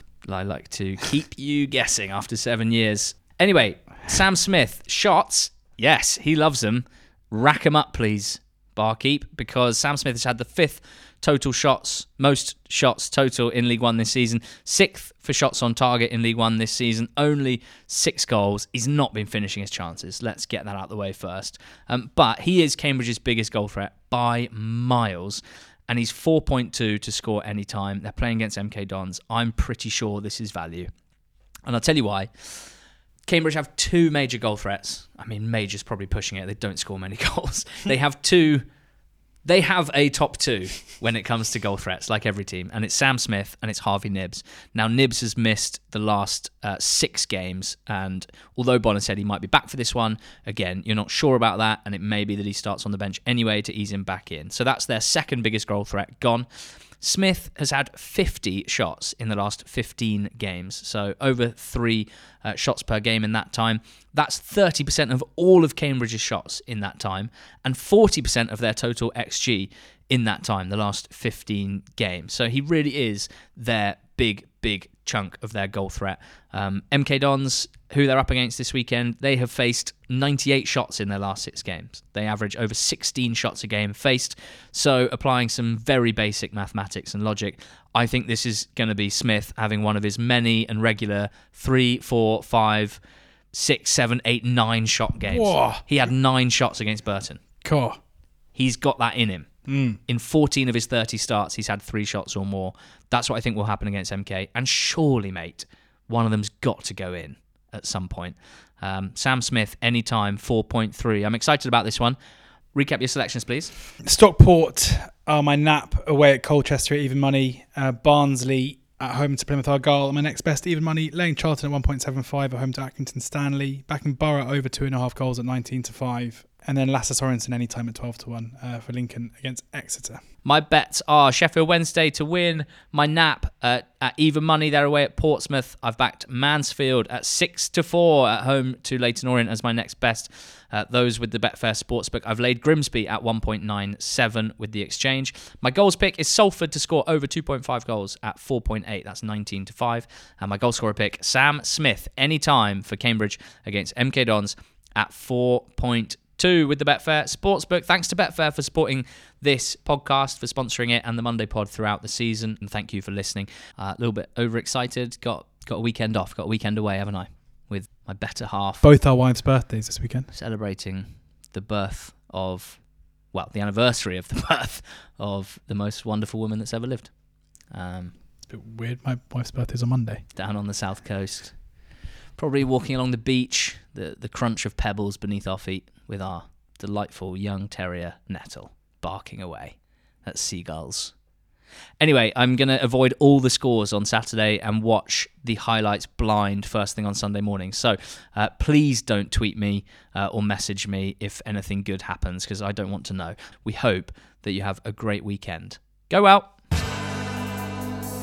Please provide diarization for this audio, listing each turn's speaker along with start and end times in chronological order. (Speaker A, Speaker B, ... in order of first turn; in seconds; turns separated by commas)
Speaker A: 0.3-30.9, Speaker A: 31.7-32.7, Speaker A: 33.3-38.6, Speaker A: 39.5-56.5, Speaker A: 57.0-93.0, Speaker A: 93.5-97.4, Speaker B: 95.3-95.9, Speaker B: 97.6-98.0, Speaker A: 98.5-99.5, Speaker B: 99.7-100.0, Speaker A: 100.1-112.2, Speaker A: 112.7-113.7, Speaker B: 114.0-130.2, Speaker A: 130.4-168.9, Speaker B: 168.8-170.3, Speaker A: 170.3-177.2, Speaker A: 177.7-178.1, Speaker B: 178.5-180.2, Speaker A: 180.3-181.6, Speaker A: 182.4-191.1, Speaker A: 192.0-206.6